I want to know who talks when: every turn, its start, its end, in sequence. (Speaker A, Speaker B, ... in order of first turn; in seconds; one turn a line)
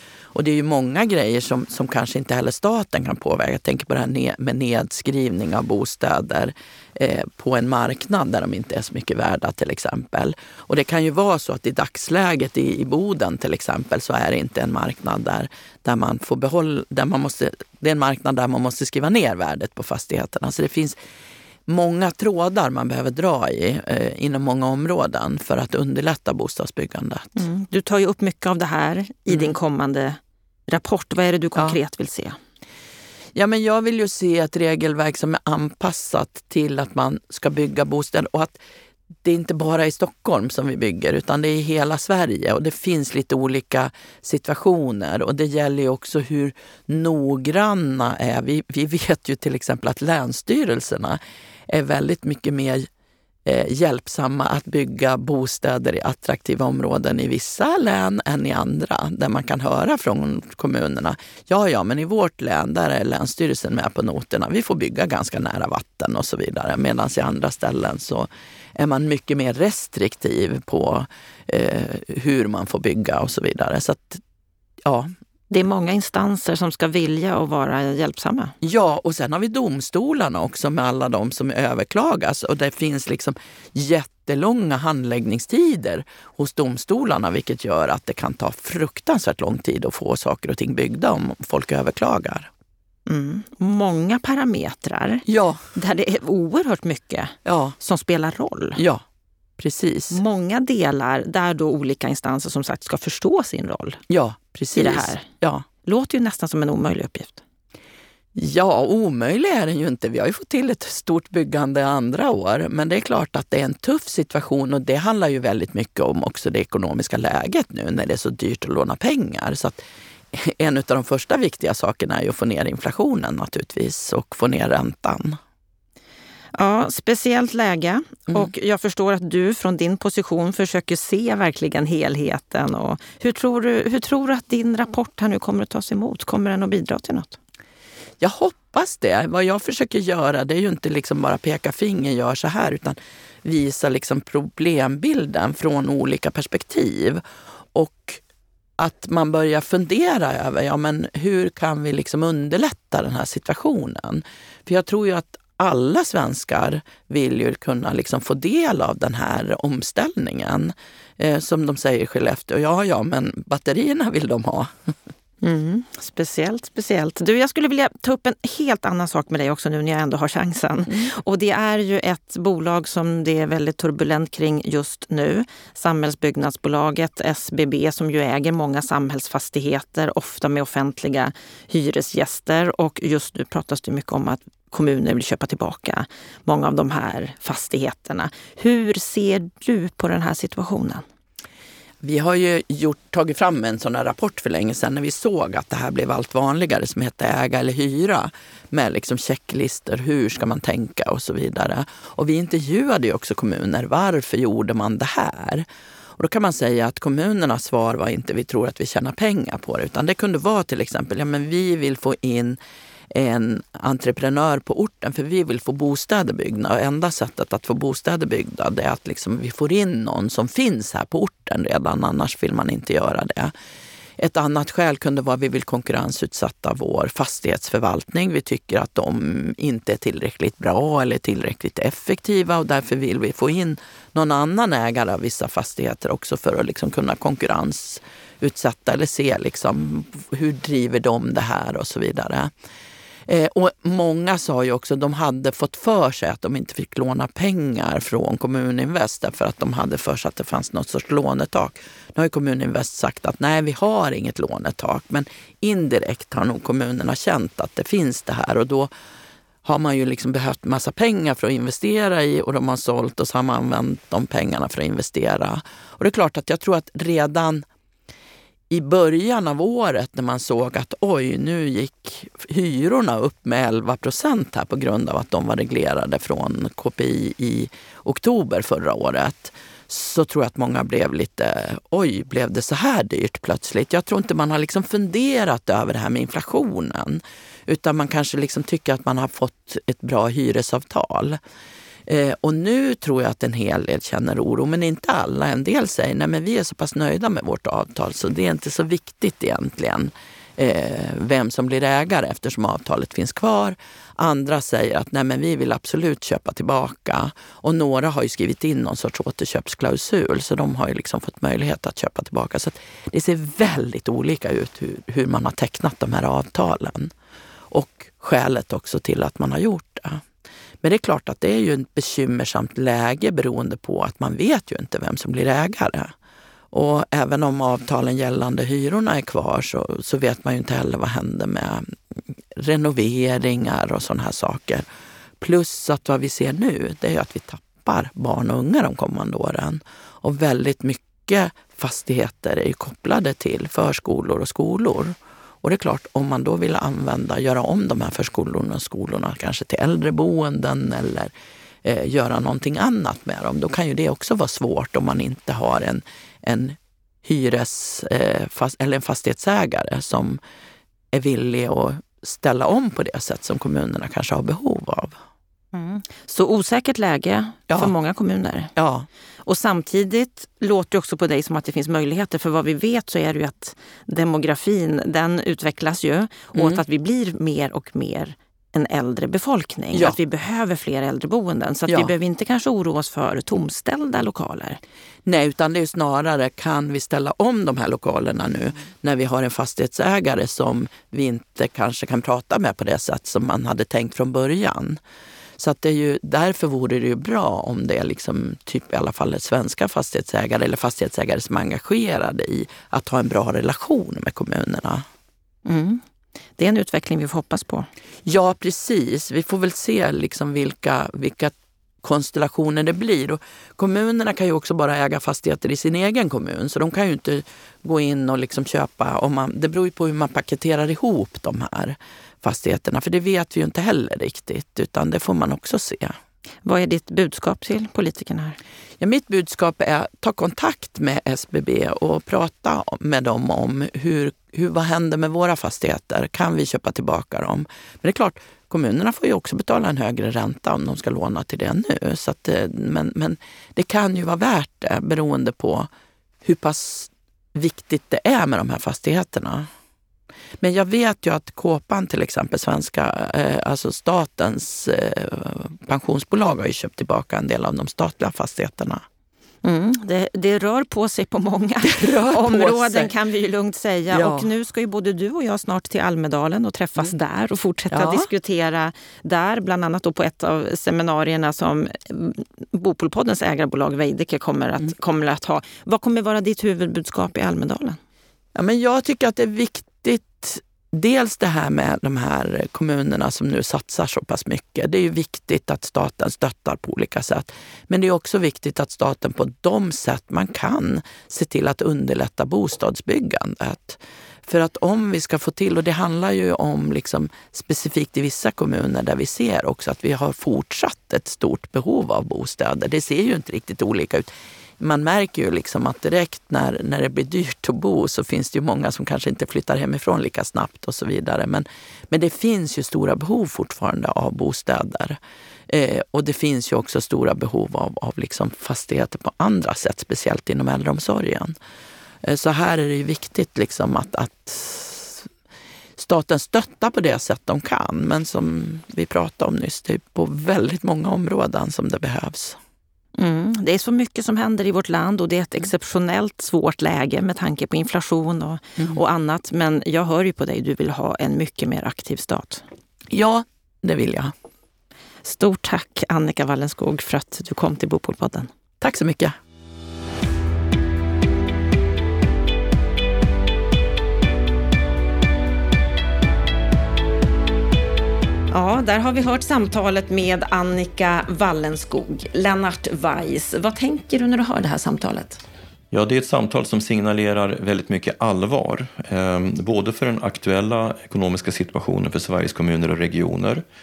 Speaker A: 0.3-21.0
Speaker A: 21.7-27.4
Speaker B: 27.4-32.4
Speaker A: 33.4-38.6
Speaker A: 39.2-52.9
Speaker A: 53.5-74.2
Speaker A: 74.9-75.1
Speaker B: 75.5-78.5
Speaker A: 78.6-92.5
Speaker B: 93.1-98.8
Speaker A: 95.3-95.6
Speaker A: 97.5-97.8
Speaker A: 98.8-99.0
Speaker A: 99.6-100.2
Speaker B: 100.1-104.0
Speaker A: 104.1-105.7
Speaker B: 104.8-105.3
Speaker B: 105.8-107.4
Speaker A: 108.4-119.8
Speaker A: 120.3-125.4
Speaker B: 126.5-137.4
Speaker A: 138.2-147.2
Speaker A: 147.7-148.2
Speaker A: 148.8-164.7
Speaker B: 165.4-191.0
Speaker A: 192.0-205.7
Speaker A: 206.2-212.6
Speaker A: 213.1-223.5
Speaker A: 224.2-242.5
Speaker A: 243.3-258.9
Speaker A: 259.6-267.7
Speaker A: 268.7-291.4
Speaker A: 292.1-317.1
Speaker A: 317.7-320.2
Speaker A: 320.8-326.1
Speaker A: 326.7-331.9
Speaker A: 332.6-334.9
Speaker A: 335.4-351.3
Speaker A: 351.8-360.4
Speaker A: 361.1-365.2
Speaker B: 365.7-368.7
Speaker A: 368.8-369.1
Speaker B: 369.4-384.8
Speaker A: 376.5-376.8
Speaker A: 381.9-382.1
Speaker A: 385.3-395.0
Speaker A: 395.6-405.0
Speaker B: 405.6-406.0
Speaker B: 406.6-407.9
Speaker A: 408.2-426.2
Speaker B: 426.6-428.6
Speaker A: 429.0-445.9
Speaker A: 446.4-449.7
Speaker A: 450.6-459.0
Speaker B: 459.6-478.0
Speaker A: 461.9-463.1
Speaker A: 464.1-464.5
Speaker A: 467.9-468.3
Speaker A: 478.6-515.2
Speaker A: 515.7-521.5
Speaker A: 522.2-525.3
Speaker A: 526.0-532.6
Speaker B: 533.2-542.6
Speaker A: 543.1-544.3
Speaker B: 545.2-548.5
Speaker A: 548.8-549.4
Speaker B: 558.5-565.4
Speaker C: 565.9-573.6